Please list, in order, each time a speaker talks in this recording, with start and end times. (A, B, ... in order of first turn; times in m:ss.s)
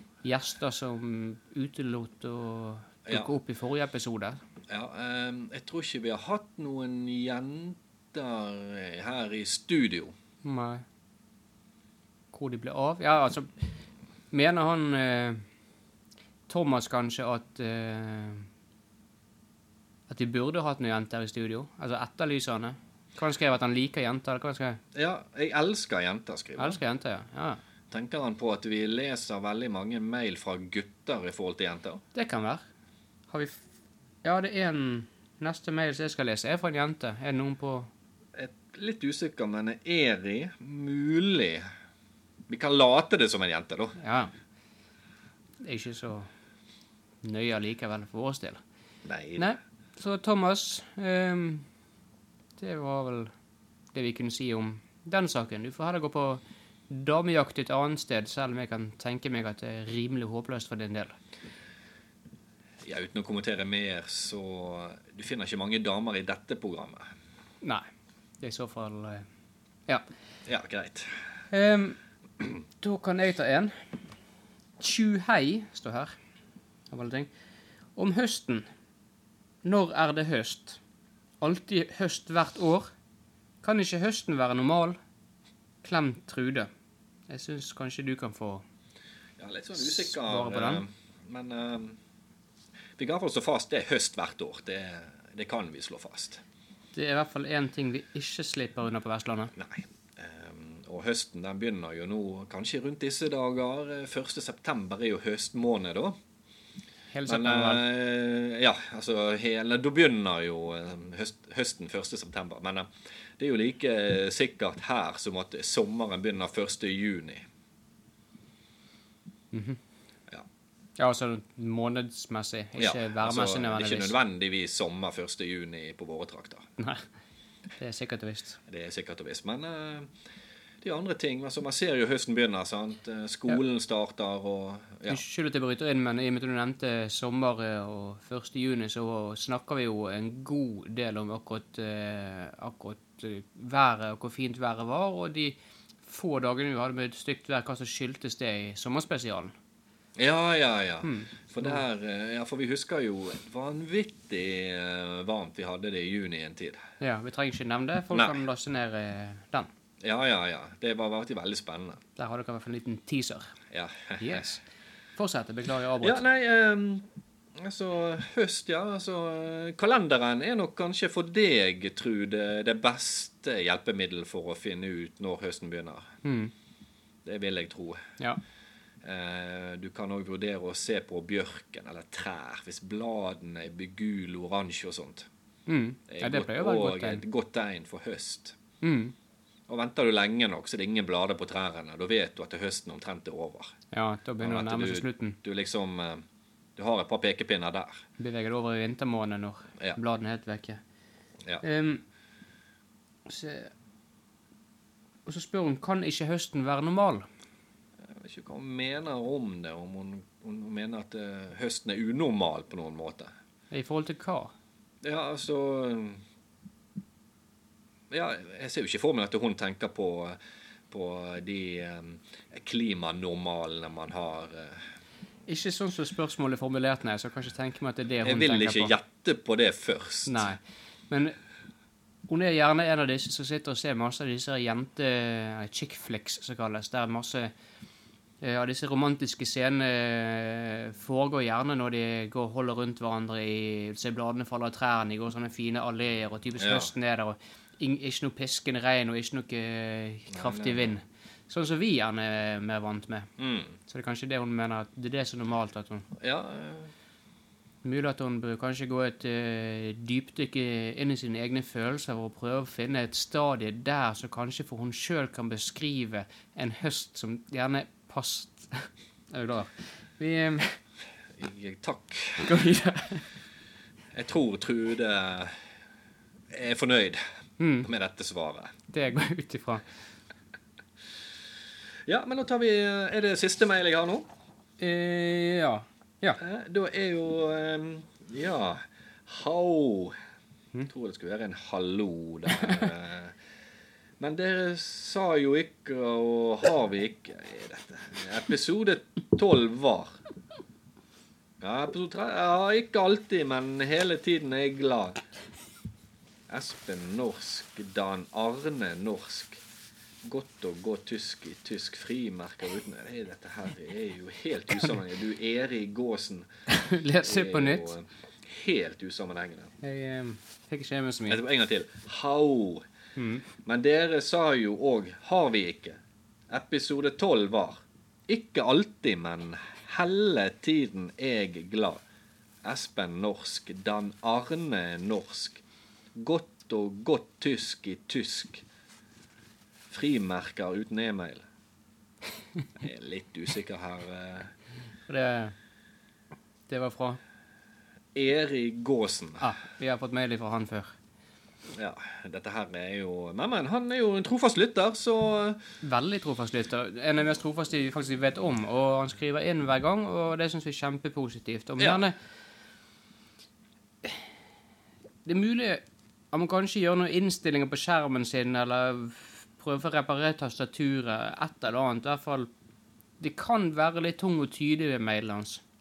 0:00.2-0:04.4 A
0:04.7-0:10.1 B
0:10.4-0:10.8 A
0:12.3-0:13.7 A
0:14.3-0:15.4 A
0:16.5-0:18.5 A
0:20.1-0:24.8 A
0:24.9-0:26.8 B
0:26.6-0:27.6 A
0:27.9-0:32.0 B
0:32.1-0:32.6 A
0:33.3-0:33.6 A
0:34.2-0:37.9 A
0:38.3-0:41.6 B
0:42.5-0:44.0 B
0:44.0-0:44.3 A
0:45.6-0:46.3 A
0:47.2-0:48.6 A
0:49.0-0:49.5 B
0:49.4-0:51.7 A
0:52.6-0:53.3 A
0:53.9-1:01.1 A
1:02.8-1:07.0 B
1:08.4-1:09.2 A
1:10.4-1:11.3 B
1:11.5-1:13.8 A
1:14.8-1:16.2 A
1:16.9-1:17.3 A
1:18.0-1:18.7 A
1:19.6-1:20.8 A
1:21.4-1:22.9 A
1:23.6-1:25.0 A
1:25.8-1:26.7 A
1:27.3-1:28.6 A
1:29.4-1:32.0 B
1:29.8-1:30.8 A
1:33.0-1:36.4 B
1:36.9-1:39.5 A
1:39.6-1:46.2 B
1:47.1-1:47.8 A
1:47.3-1:57.4 B
1:59.5-1:59.8 A
2:01.0-2:04.1 A
2:02.8-2:06.7 B
2:06.8-2:07.0 A
2:07.8-2:08.6 A
2:08.7-2:10.1 B
2:10.8-2:15.2 B
2:15.1-2:29.5 A
2:30.2-2:36.8 B
2:31.0-2:31.8 A
2:37.0-2:39.7 A
2:38.1-2:38.4 B
2:40.0-2:42.0 B
2:42.2-2:43.6 A
2:43.7-2:44.5 B
2:44.2-2:44.6 A
2:45.2-2:46.2 A
2:46.0-2:56.1 B
2:56.2-2:56.5 A
2:57.2-2:58.0 B
2:59.0-3:05.3 B
3:05.7-3:07.2 A
3:06.1-3:08.6 B
3:08.8-3:09.1 A
3:09.7-3:13.7 B
3:13.9-3:15.4 A
3:14.4-3:18.0 B
3:18.2-3:20.8 A
3:21.6-3:22.0 A
3:23.2-3:23.7 A
3:25.2-3:27.3 A
3:28.0-3:33.3 B
3:33.7-3:34.5 A
3:35.0-3:36.2 B
3:38.1-3:40.4 B
3:40.9-3:44.8 B
3:45.5-3:48.9 A
3:48.2-3:50.5 B
3:50.3-3:51.4 A
3:52.3-3:57.5 A
3:58.4-4:13.3 A
4:06.6-4:06.9 B
4:10.3-4:10.9 B
4:13.4-4:13.7 B
4:13.9-4:16.1 A
4:16.2-4:16.9 B
4:17.8-4:30.8 A
4:31.3-4:32.7 B
4:32.4-4:33.3 A
4:34.1-4:35.6 B
4:36.5-4:37.2 B
4:37.6-4:37.9 A
4:37.8-4:38.7 B
4:38.9-4:39.8 A
4:42.0-4:44.3 B
4:44.8-4:46.4 A
4:46.4-4:50.2 B
4:50.9-4:53.3 B
4:54.2-5:00.2 B
5:01.6-5:05.2 B
5:06.5-5:09.6 B
5:10.2-5:16.5 B
5:16.7-5:17.9 A
5:17.2-5:19.7 B
5:19.8-5:21.4 A
5:21.3-5:22.8 B
5:23.2-5:23.4 A
5:23.5-5:26.0 B
5:26.5-5:32.0 B
5:32.6-5:35.6 B
5:36.1-5:38.6 B
5:39.9-5:41.4 B
5:42.8-5:44.5 B
5:45.1-5:45.5 A
5:46.7-5:47.2 A
5:48.1-5:49.5 B
5:49.4-5:50.9 A
5:51.7-5:55.6 B
5:55.8-6:02.2 A
6:05.2-6:12.5 A
6:13.2-6:15.6 A